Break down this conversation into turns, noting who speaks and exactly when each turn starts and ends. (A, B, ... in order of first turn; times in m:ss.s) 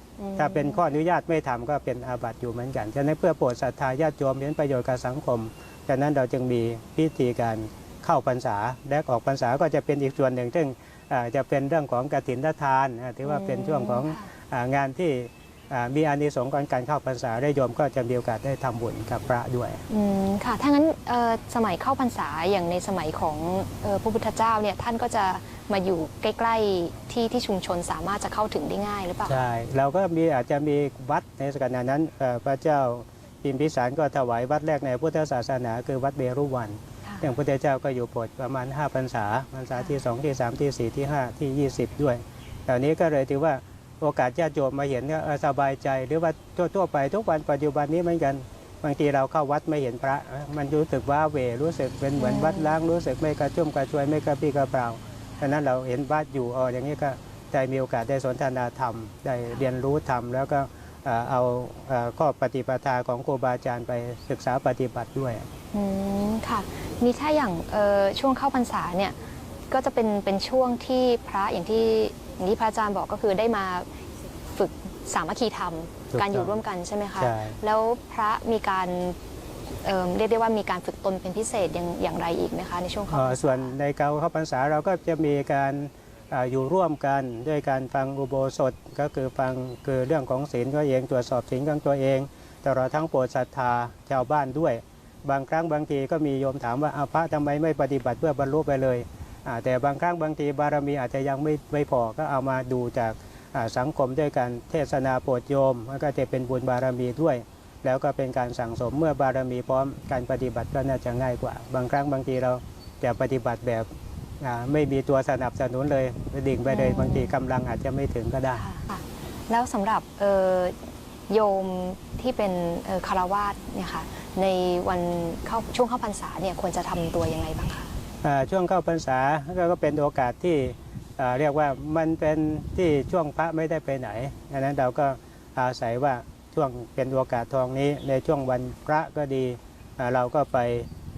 0:00.2-0:00.8 A
0:00.4-0:19.8 B
0:13.2-0:14.3 A
0:19.9-0:29.4 A
0:29.3-1:05.4 B
0:37.0-0:37.3 A
0:52.2-0:52.7 A
1:05.7-1:09.2 A
1:09.7-1:13.8 A
1:14.5-1:19.2 A
1:16.1-1:16.6 B
1:17.2-1:17.6 B
1:19.8-1:23.7 A
1:23.1-1:53.8 B
1:54.4-1:58.6 B
1:56.6-1:57.3 A
1:58.5-2:00.8 A
2:01.3-2:07.9 A
2:08.2-2:20.9 B